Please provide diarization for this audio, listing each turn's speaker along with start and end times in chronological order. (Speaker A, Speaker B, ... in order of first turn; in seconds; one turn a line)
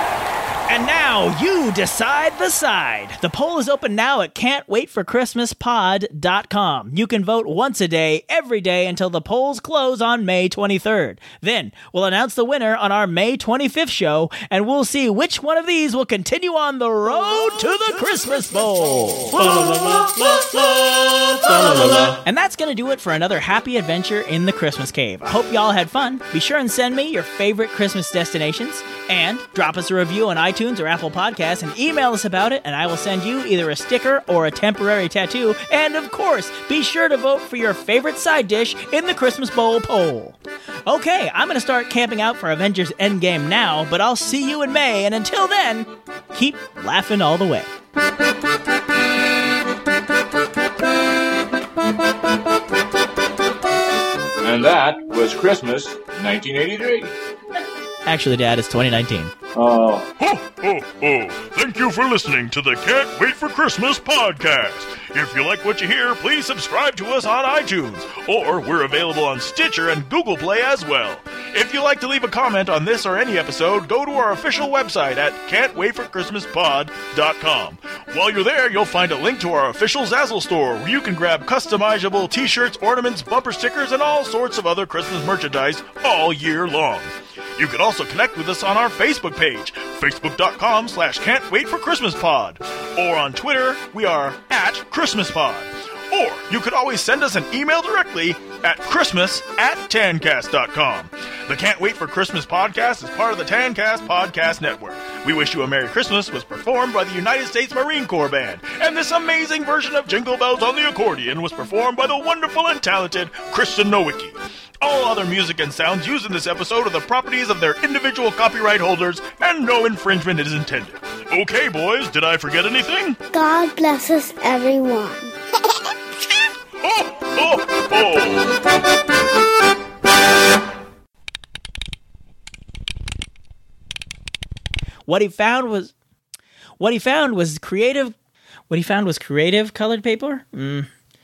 Speaker A: 0.7-20.2
Speaker A: 21.5-47.7
Speaker B: 54.4-57.1
Speaker A: 58.0-59.3
Speaker B: 59.5-60.1
Speaker C: 60.2-123.2
Speaker D: 123.3-125.3
Speaker C: 126.8-128.5
Speaker A: 135.1-135.9
Speaker A: 136.8-138.1
Speaker A: 138.7-140.9